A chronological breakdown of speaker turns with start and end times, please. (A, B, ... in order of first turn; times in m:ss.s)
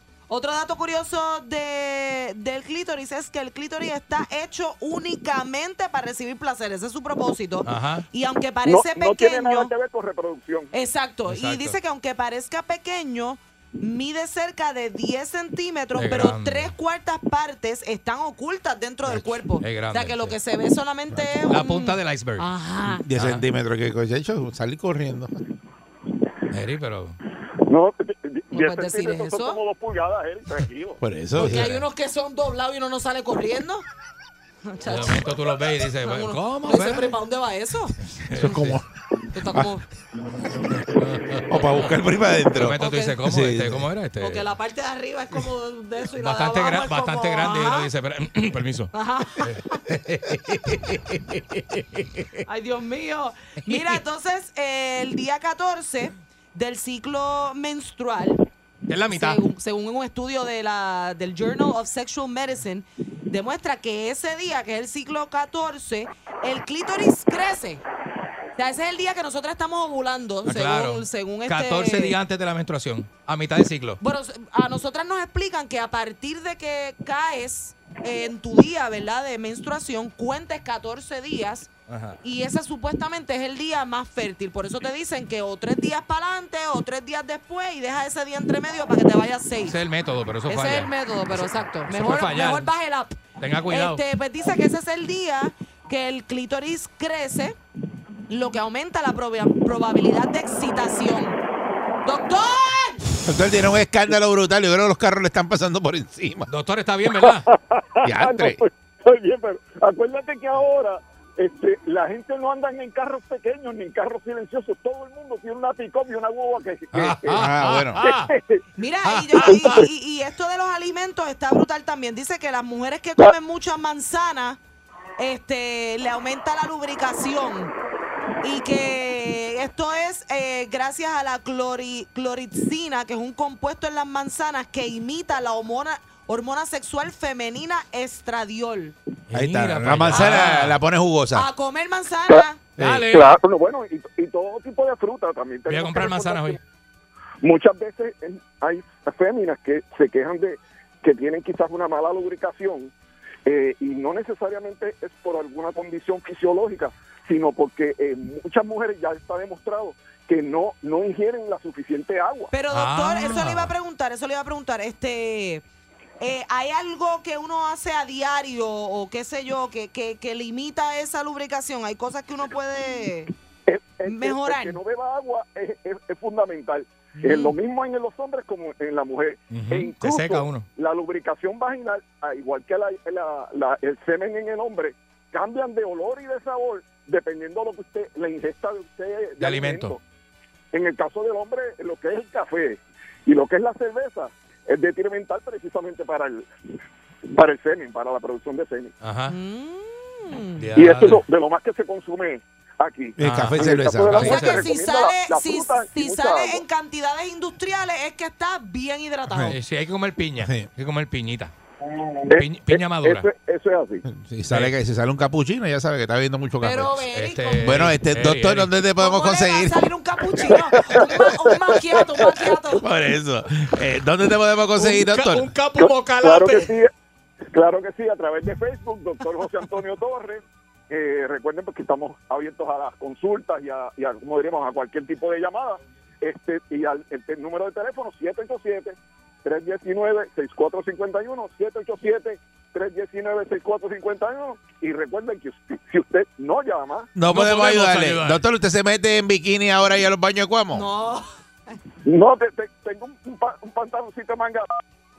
0:00.3-0:09.7 A
0:07.6-0:08.1 B
0:08.6-0:10.7 C
0:10.7-0:23.0 A
0:11.3-0:11.8 B
0:15.9-0:16.7 B
0:19.1-0:20.4 B
0:21.5-0:22.4 B
0:23.0-0:25.4 D
0:23.2-0:23.4 B
0:26.5-0:27.2 B
0:27.7-0:31.0 C
0:28.5-0:29.6 A
0:31.0-0:31.7 D
0:31.3-0:33.8 A
0:34.6-0:35.3 A
0:34.8-0:37.1 B
0:36.0-0:38.6 A
0:38.2-0:38.8 B
0:38.3-0:38.8 D
0:39.3-0:39.8 A
0:40.7-0:41.9 B
0:41.5-0:43.8 D
0:42.5-0:44.4 B
0:42.8-0:43.2 A
0:44.2-0:47.9 A
0:46.2-0:52.2 B
0:48.9-0:49.8 A
0:52.4-0:58.4 A
0:53.7-0:54.0 B
0:58.9-0:59.4 B
0:59.1-1:07.8 A
1:08.6-1:12.2 A
1:10.4-1:14.0 B
1:14.0-1:21.7 A
1:21.9-1:22.2 B
1:22.2-1:29.8 A
1:29.6-1:32.7 B
1:30.5-1:33.2 A
1:33.4-1:34.0 B
1:33.7-1:37.6 A
1:38.3-1:41.4 A
1:42.0-1:43.0 A
1:43.2-1:46.5 D
1:46.5-1:47.5 B
1:47.1-1:57.4 C
1:48.0-1:48.6 D
1:56.9-1:58.3 B
1:57.3-1:58.0 D
1:58.0-1:58.6 C
1:58.8-2:04.6 A
1:59.0-1:59.9 B
1:59.4-1:59.8 C
2:05.2-2:07.7 A
2:08.4-2:18.9 A
2:19.3-2:20.8 B
2:19.3-2:21.5 D
2:21.3-2:22.6 A
2:22.8-2:23.1 D
2:22.8-2:23.3 B
2:23.1-2:26.6 C
2:25.7-2:26.6 B
2:27.4-2:32.9 C
2:33.4-2:42.5 C
2:42.5-2:45.6 A
2:42.7-2:43.7 B
2:46.2-2:53.3 A
2:53.6-3:10.0 C
2:54.0-2:54.8 A
2:57.2-2:57.5 A
2:59.5-3:00.7 B
3:09.4-3:09.9 B
3:10.7-3:16.5 C
3:17.3-3:18.9 C
3:19.0-3:19.3 B
3:19.3-3:20.6 A
3:20.6-3:21.2 B
3:20.7-3:26.6 C
3:23.2-3:24.4 D
3:23.2-3:24.7 B
3:24.2-3:29.5 A
3:29.3-3:29.6 D
3:29.5-3:31.5 B
3:30.4-3:30.7 D
3:32.2-3:34.0 C
3:32.3-3:33.3 B
3:34.0-3:39.9 D
3:34.5-3:34.7 B
3:36.6-3:37.8 A
3:37.1-3:38.7 B
3:39.0-3:42.8 A
3:40.5-3:42.3 C
3:42.7-3:45.5 D
3:44.8-3:46.7 B
3:45.8-3:46.9 C
3:47.5-4:07.1 C
4:07.1-4:10.8 D
4:07.3-4:08.4 B
4:10.7-4:11.3 A
4:12.0-4:14.6 C